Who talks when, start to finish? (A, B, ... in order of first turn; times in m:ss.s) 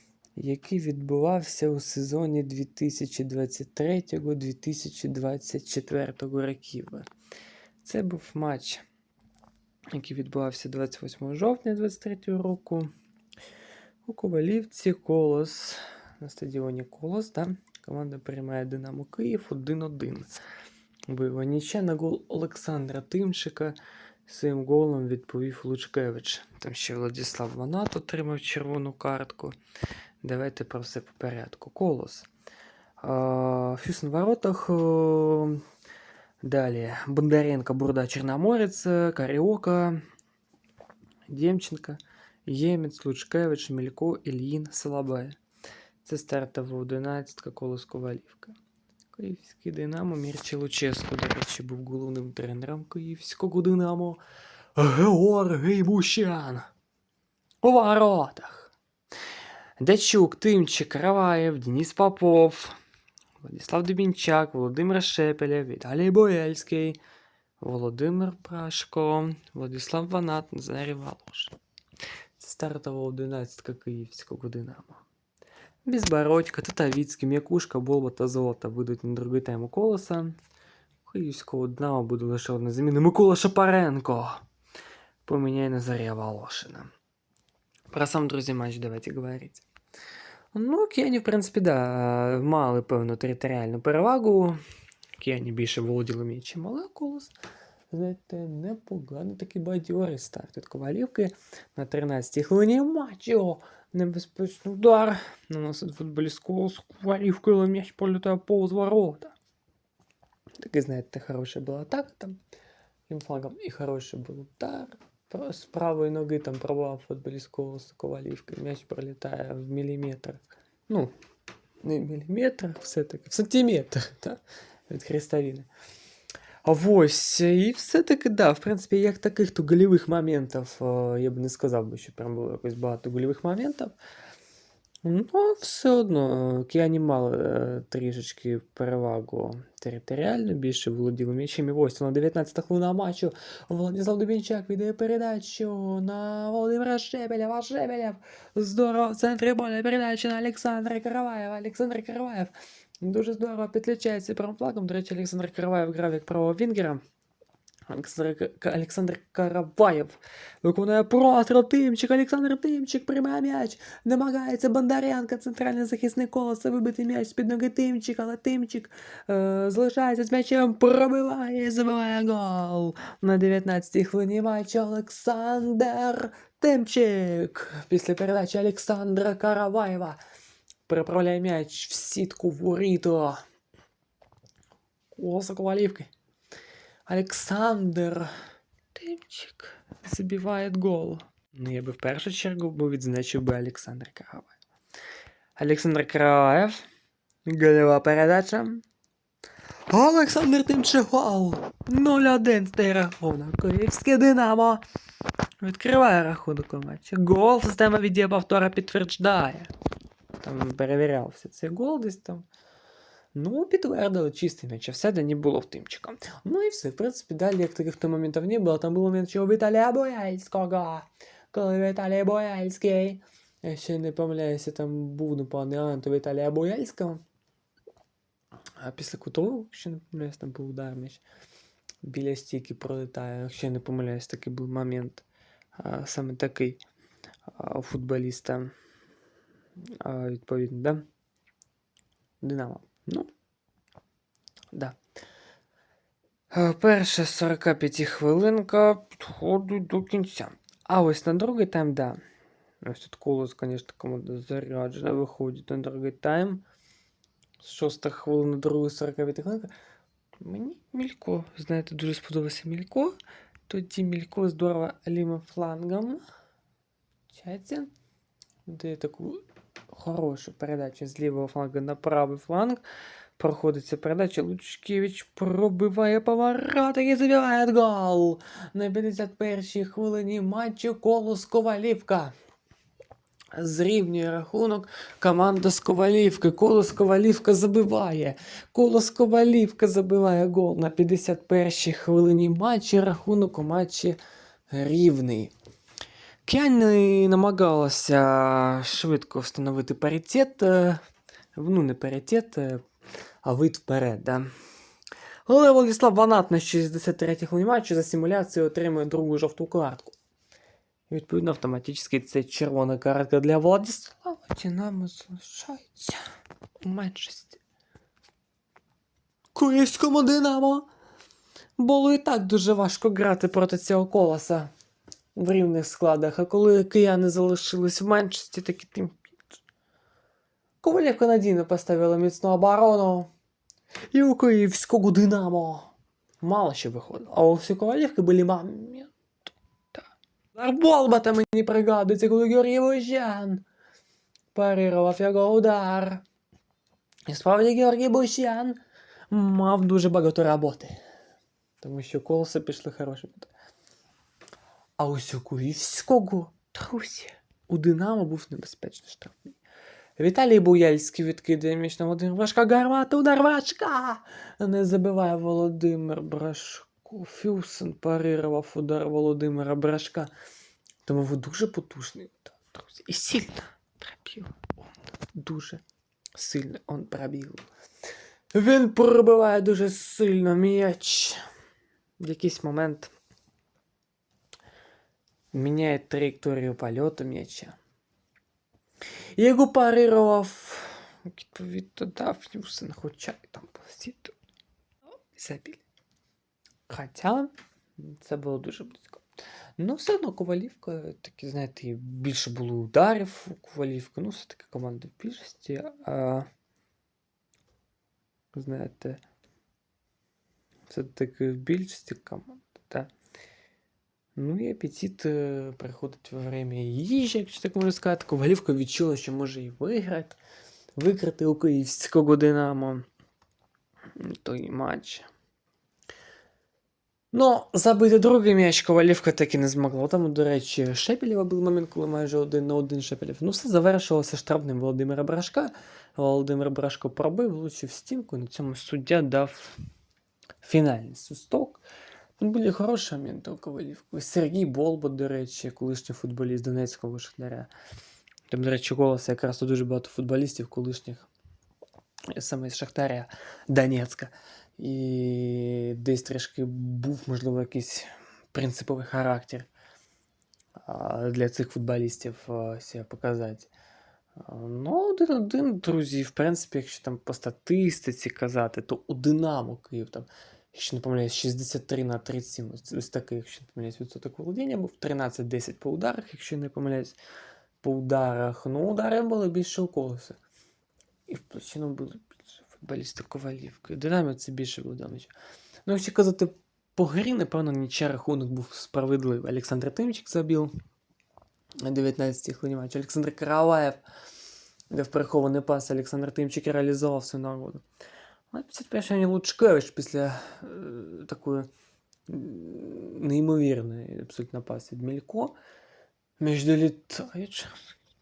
0:00.4-0:07.1 A
0:07.8-0:08.8 A
0:09.9-0:12.9 A
0:14.0-0:20.3 A
0:21.1-0:29.6 A
0:30.2-0:32.3 A
0:33.0-0:35.6 A
0:36.4-0:40.0 A
0:41.3-0:45.4 A
0:46.0-0:48.6 A
0:49.1-0:54.2 A
0:54.8-0:56.7 A
0:57.6-0:58.7 A
0:59.8-1:02.8 A
1:03.4-1:07.0 A
1:07.6-1:11.6 A
1:12.4-1:15.0 A
1:15.8-1:20.4 A
1:21.0-1:24.4 A
1:25.2-1:26.9 A
1:27.9-1:29.7 A
1:30.5-1:34.6 A
1:35.2-1:37.3 A
1:37.9-1:49.3 A
1:50.6-1:52.4 A
1:53.1-2:01.1 A
2:01.8-2:05.7 A
2:06.6-2:14.0 A
2:15.0-2:37.0 A
2:37.9-3:00.2 A
3:00.9-3:03.4 A
3:05.2-3:06.1 A
3:07.1-3:08.3 A
3:08.9-3:14.5 A
3:15.6-3:16.8 A
3:17.5-3:18.8 A
3:19.9-3:24.8 A
3:25.6-3:29.7 A
3:30.4-3:32.5 A
3:33.4-3:47.2 A
3:48.8-3:51.2 A
3:52.0-3:55.2 A
3:55.8-3:56.8 A
3:57.5-3:58.7 A
3:59.8-4:01.0 A
4:02.4-4:03.3 A
4:04.7-4:05.0 A
4:06.5-4:12.2 A
4:12.8-4:16.6 A
4:17.6-4:19.7 A
4:20.4-4:23.2 A
4:23.7-4:26.2 A
4:27.3-4:27.9 A
4:28.7-4:32.8 A
4:33.4-4:42.3 A
4:43.5-4:54.2 A
4:54.7-4:55.5 A
4:56.5-5:01.0 A
5:01.6-5:02.8 A
5:03.4-5:04.5 A
5:05.5-5:10.2 A
5:11.1-5:16.2 A
5:16.8-5:17.6 A
5:19.5-5:20.9 A
5:21.8-5:24.7 A
5:25.4-5:29.3 A
5:30.8-5:33.3 A
5:34.1-5:43.6 A
5:44.5-5:46.2 A
5:47.3-5:48.8 A
5:49.3-5:51.0 A
5:51.8-5:53.5 A
5:55.0-5:59.6 A
6:00.2-6:10.3 A
6:11.0-6:15.8 A
6:16.4-6:17.6 A
6:18.5-6:21.4 A
6:22.2-6:23.1 A
6:25.5-6:27.8 A
6:29.4-6:34.4 A
6:35.3-6:35.8 A
6:36.9-6:39.2 A
6:39.8-6:46.5 A
6:48.5-6:49.2 A
6:50.9-6:53.1 A
6:54.4-7:00.4 A
7:01.0-7:03.0 A
7:04.2-7:05.3 A
7:07.3-7:19.8 A
7:20.6-7:21.8 A
7:22.4-7:27.7 A
7:28.5-7:31.3 A
7:32.3-7:39.7 A
7:40.8-7:43.7 A
7:44.4-7:57.2 A
7:57.8-8:00.4 A
8:01.3-8:05.3 A
8:05.9-8:10.7 A
8:11.8-8:14.0 A
8:14.9-8:17.8 A
8:18.5-8:21.7 A
8:22.3-8:25.6 A
8:26.4-8:27.8 A